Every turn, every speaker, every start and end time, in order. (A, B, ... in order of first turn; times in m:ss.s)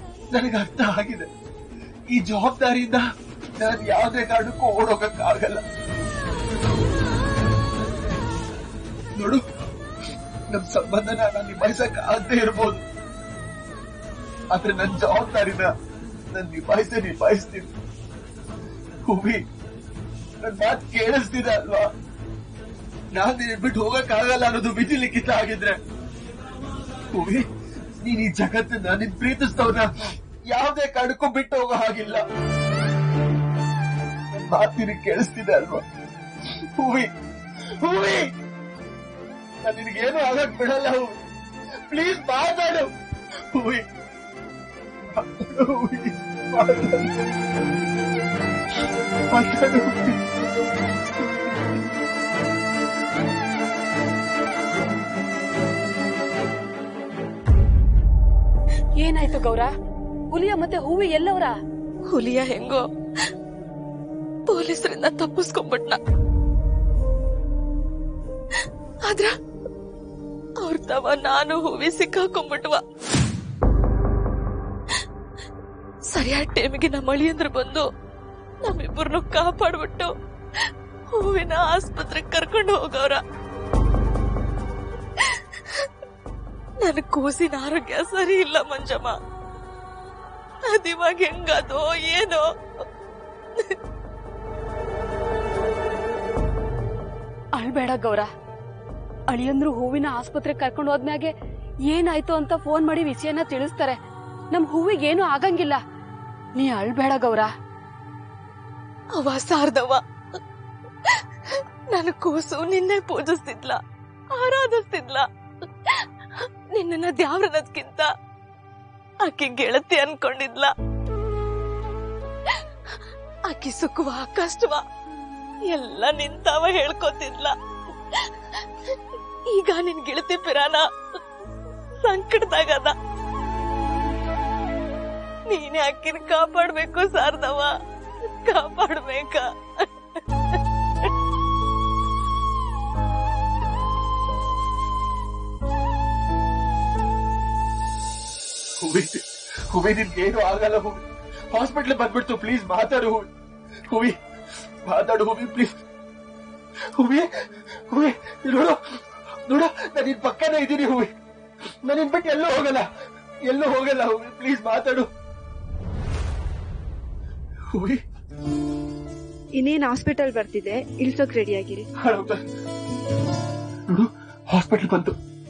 0:00.3-0:01.3 A
0:02.1-0:03.0 A
0:03.6-0:05.6 A
0:09.2-0:09.4 A
0:10.5-0:12.8 A
0:14.5-0:15.7 A
0:16.3-0:17.7 A
0:19.1-0:19.4 A
0:20.4-0:21.9 A
0:23.1-0:25.8 A
0:27.1-0:27.5 A
0:28.0-0:29.9 A
0:30.5-0:32.2 A
0:34.3-0:35.8 A
0:36.8-0:37.1 A
0:37.8-0:38.3 A
0:39.6-0:41.2 A
0:41.9-0:42.9 A
0:43.5-0:43.8 A
0:45.1-0:47.4 A
0:49.3-0:50.2 A
0:51.2-0:51.8 A
0:59.0-0:59.7 B
1:00.3-1:01.5 B
1:02.1-1:02.8 C
1:04.5-1:06.0 C
1:08.6-1:09.3 C
1:10.6-1:12.8 C
1:16.1-1:17.8 C
1:18.6-1:23.2 C
1:25.2-1:25.9 C
1:26.8-1:29.1 C
1:30.7-1:32.4 C
1:37.5-1:38.3 B
1:39.3-1:41.3 B
1:41.9-1:44.0 B
1:44.5-1:45.8 B
1:46.6-1:47.5 B
1:49.2-1:50.0 C
1:51.0-1:53.8 C
1:54.3-1:55.2 C
1:55.8-1:58.1 C
1:59.2-2:00.7 C
2:02.4-2:03.0 C
2:03.5-2:04.8 C
2:05.7-2:07.5 C
2:08.1-2:09.0 C
2:09.5-2:10.8 C
2:12.0-2:12.9 C
2:15.5-2:17.7 C
2:18.3-2:20.6 C
2:28.8-2:31.0 A
2:31.5-2:33.3 A
2:33.9-2:34.1 A
2:34.8-2:35.7 A
2:37.0-2:37.3 A
2:37.9-2:38.8 A
2:39.5-2:41.1 A
2:41.8-2:42.9 A
2:43.4-2:45.1 A
2:47.7-2:48.0 A
2:49.6-2:51.8 D
2:52.0-2:52.4 A
2:53.9-2:55.1 A